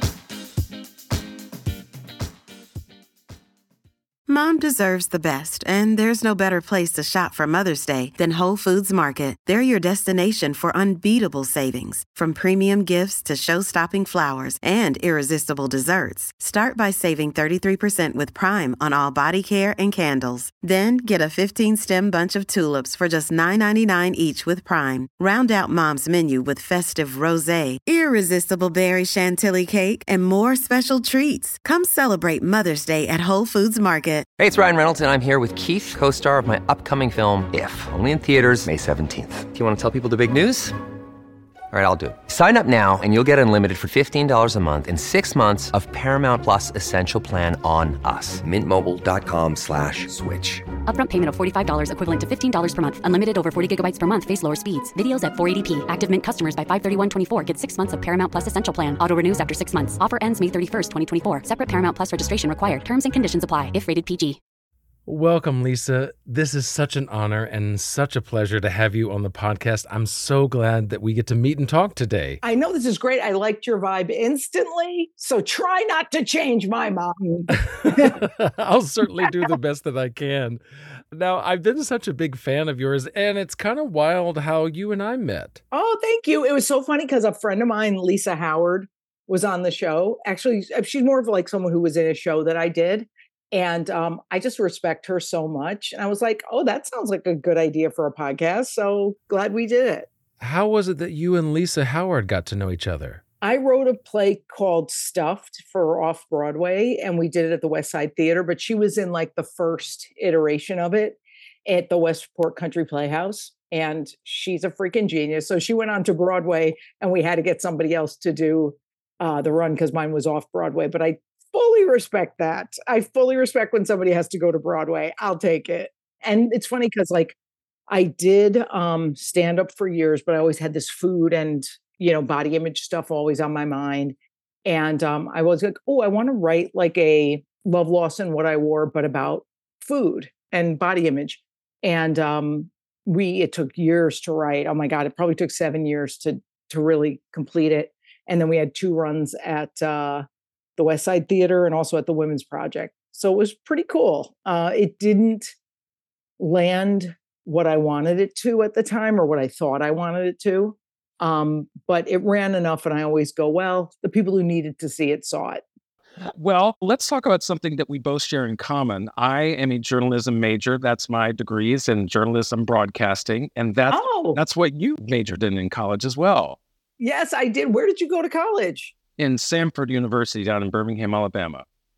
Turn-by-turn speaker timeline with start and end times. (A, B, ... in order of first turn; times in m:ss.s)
0:04.3-0:34.3 A
0:34.4-0:40.8 B
0:41.7-0:50.7 B
0:50.8-1:04.4 C
1:05.1-1:12.4 D
1:12.4-1:18.2 E
1:17.7-1:20.6 D
1:19.2-1:19.5 E
1:21.1-1:25.6 D
1:25.7-1:40.1 E
1:40.4-1:43.2 D
1:43.4-2:07.4 E
2:07.9-2:14.2 E
2:14.7-2:30.2 E
2:30.8-2:35.5 E
2:36.4-2:45.6 E
2:46.2-2:56.6 F
2:53.9-2:54.4 E
2:57.0-2:58.9 E
2:59.2-3:01.7 F